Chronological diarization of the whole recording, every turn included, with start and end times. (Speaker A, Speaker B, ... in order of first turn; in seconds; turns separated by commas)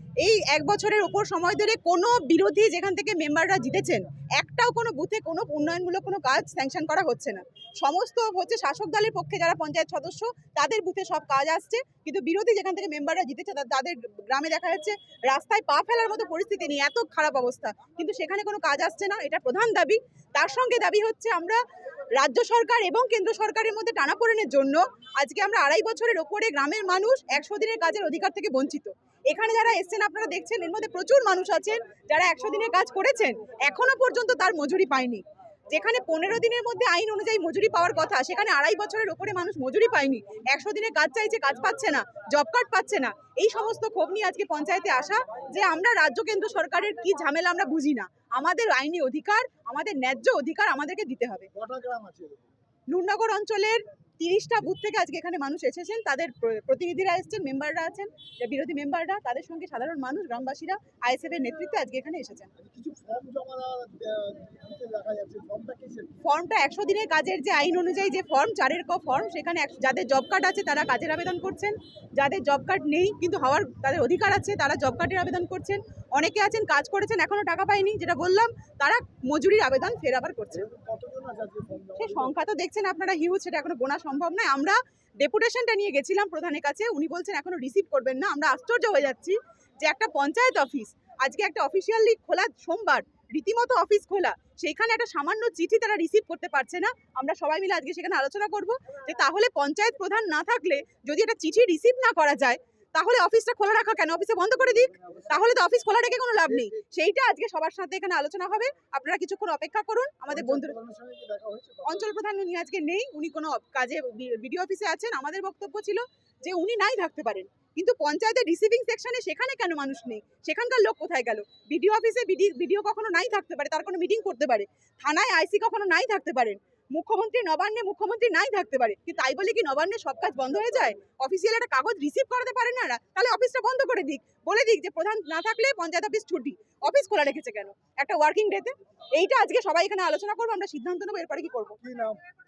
Speaker A: 0.2-21.6, Speaker A: 22.2-51.5, Speaker B: 51.5-52.5, Speaker A: 52.9-62.5, Speaker B: 62.6-66.1, Speaker A: 66.2-80.7, Speaker B: 80.5-82.3, Speaker A: 82.0-110.8, Speaker B: 105.0-105.3, Speaker B: 110.3-112.1, Speaker A: 111.8-141.8, Speaker B: 141.8-142.2